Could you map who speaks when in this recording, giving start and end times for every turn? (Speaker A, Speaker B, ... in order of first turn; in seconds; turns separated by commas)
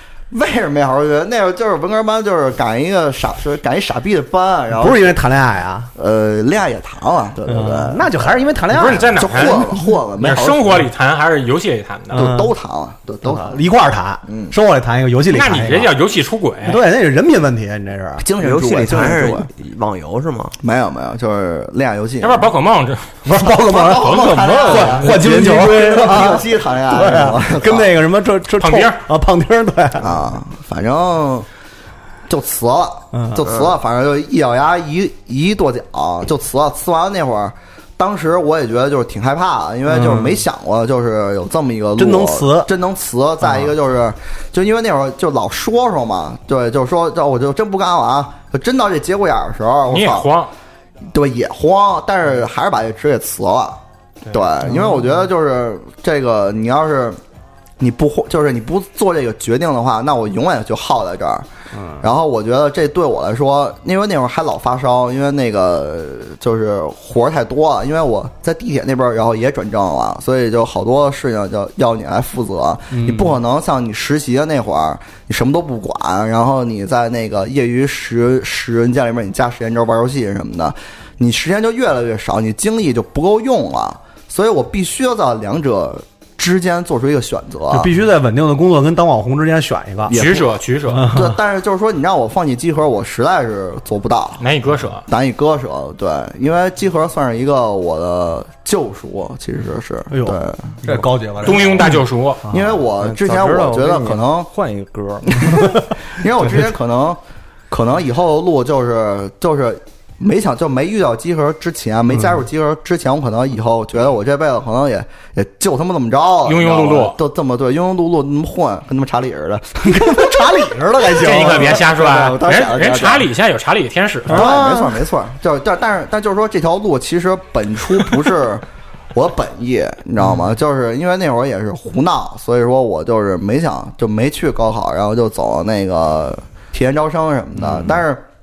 Speaker A: 0.3-5.2, Speaker B: 4.7-5.9, Speaker A: 6.0-8.4, Speaker B: 7.5-9.7, Speaker C: 8.7-12.3, Speaker A: 9.2-10.9, Speaker B: 12.1-12.5, Speaker A: 12.1-13.6, Speaker B: 13.2-16.0, Speaker A: 14.3-14.6, Speaker C: 15.3-16.8, Speaker B: 16.6-18.3, Speaker A: 18.2-19.5, Speaker D: 18.4-20.6, Speaker A: 20.6-22.5, Speaker C: 22.2-25.2, Speaker B: 23.2-30.2, Speaker A: 23.6-27.9, Speaker C: 28.6-29.0, Speaker A: 30.0-31.5, Speaker A: 32.3-50.3, Speaker B: 33.1-33.5, Speaker B: 39.9-40.4, Speaker B: 42.0-42.7, Speaker C: 49.9-50.5, Speaker A: 51.1-57.2, Speaker B: 54.6-55.1, Speaker A: 57.8-61.5, Speaker B: 61.7-62.1, Speaker A: 62.0-87.9, Speaker B: 72.9-73.4, Speaker B: 87.7-90.2, Speaker A: 90.1-90.5, Speaker C: 90.1-91.2, Speaker B: 90.9-91.3, Speaker A: 91.1-94.4, Speaker C: 94.4-95.0, Speaker A: 95.1-100.8, Speaker B: 100.1-102.0, Speaker C: 101.4-102.5, Speaker A: 102.5-104.5, Speaker E: 102.9-105.3, Speaker A: 105.3-120.7, Speaker B: 105.5-105.9, Speaker C: 116.5-117.2, Speaker B: 119.8-121.8, Speaker C: 121.2-124.5, Speaker A: 121.3-123.3, Speaker A: 124.3-138.3, Speaker B: 124.3-125.0